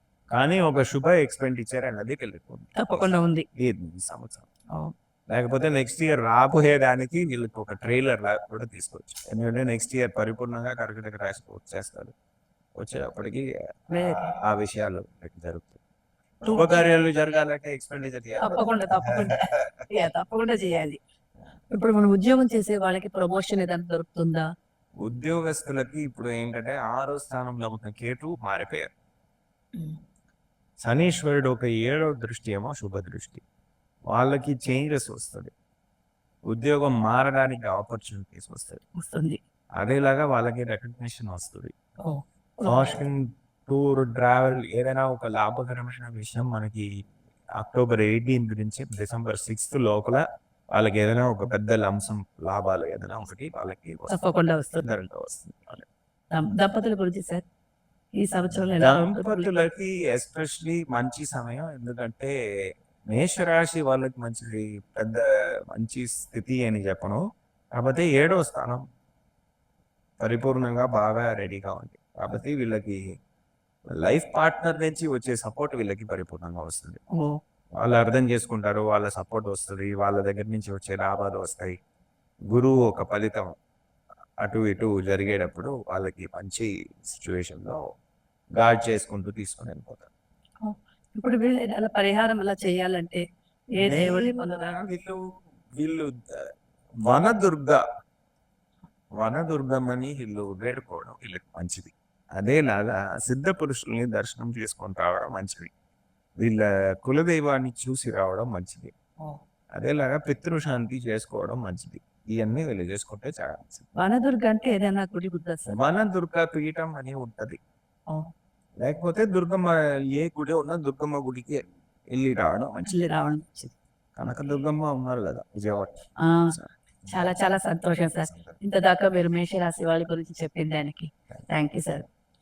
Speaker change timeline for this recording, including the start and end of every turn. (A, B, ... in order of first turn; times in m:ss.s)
0:00.3-0:04.7 A
0:02.8-0:03.5 B
0:05.3-0:12.1 A
0:12.8-0:15.8 A
0:13.9-0:14.2 B
0:16.4-0:16.9 B
0:16.5-0:19.6 A
0:18.4-0:21.0 B
0:21.7-0:24.5 B
0:25.0-0:28.9 A
0:29.8-0:30.0 B
0:30.8-0:33.4 A
0:34.1-0:35.5 A
0:36.5-0:38.8 A
0:39.0-0:39.4 B
0:39.8-0:41.7 A
0:42.0-0:43.0 B
0:42.6-0:46.9 A
0:47.6-0:55.9 A
0:54.1-0:54.8 B
0:56.3-0:57.4 B
0:58.2-0:59.5 B
0:58.8-1:02.3 A
1:03.1-1:07.2 A
1:07.8-1:08.8 A
1:10.2-1:13.0 A
1:14.0-1:17.0 A
1:17.1-1:17.4 B
1:17.8-1:21.8 A
1:22.5-1:23.5 A
1:24.4-1:27.8 A
1:28.6-1:30.1 A
1:30.6-1:33.2 B
1:33.8-1:34.8 B
1:33.8-1:35.2 A
1:35.8-1:36.5 A
1:37.1-1:37.8 A
1:39.2-1:45.7 A
1:46.4-1:48.9 A
1:49.8-1:53.9 A
1:54.0-1:55.7 B
1:55.7-1:57.6 A
1:58.8-2:01.6 A
2:02.1-2:02.9 A
2:02.9-2:03.7 B
2:04.2-2:06.0 A
2:06.2-2:06.5 B
2:06.5-2:07.3 A
2:07.1-2:12.0 B
2:08.3-2:08.5 A